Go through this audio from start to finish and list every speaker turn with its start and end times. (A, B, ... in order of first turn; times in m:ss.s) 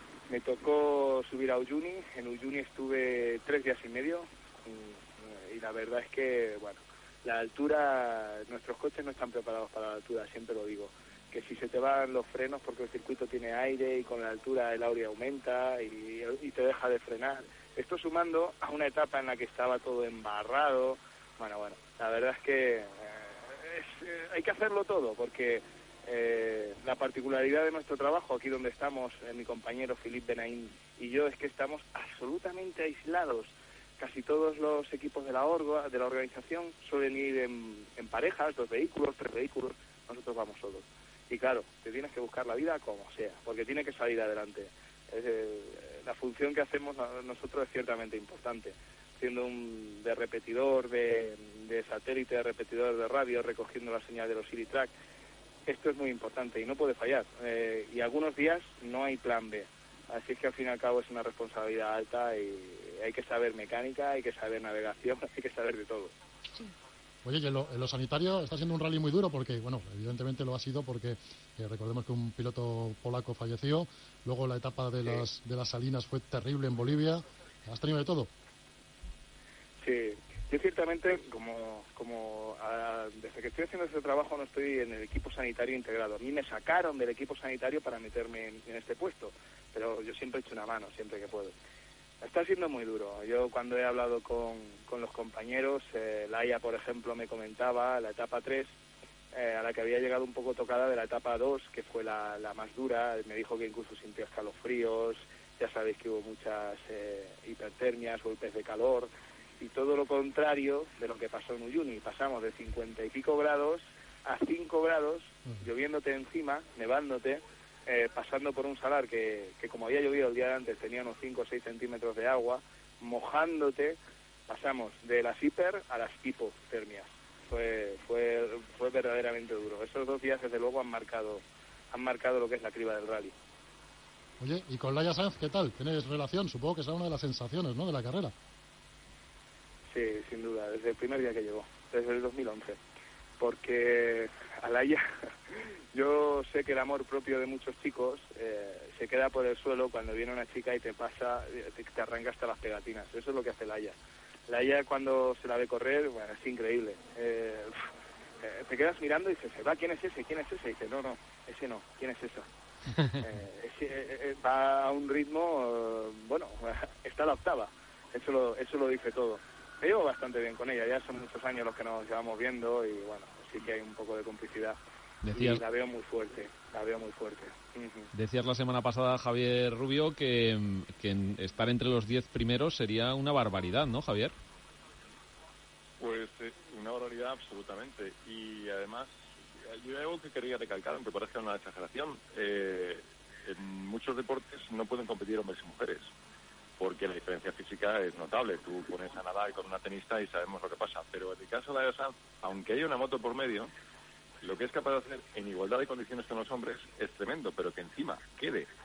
0:00.3-0:54.9 A
0:55.6-1:06.1 A
1:07.2-1:18.3 B
1:19.8-1:31.5 A
1:32.2-1:38.7 A
1:39.3-1:49.1 A
1:49.6-2:04.0 A
2:04.5-2:13.3 A
2:14.4-2:18.3 B
2:19.9-2:22.8 A
2:23.4-2:33.9 A
2:34.5-2:37.7 A
2:38.4-2:42.5 A
2:43.2-2:54.8 A
2:55.2-2:55.6 C
2:55.3-2:58.1 A
2:58.1-3:04.3 C
3:06.0-3:09.1 D
3:09.7-3:16.1 D
3:16.8-3:23.7 D
3:24.4-3:28.7 D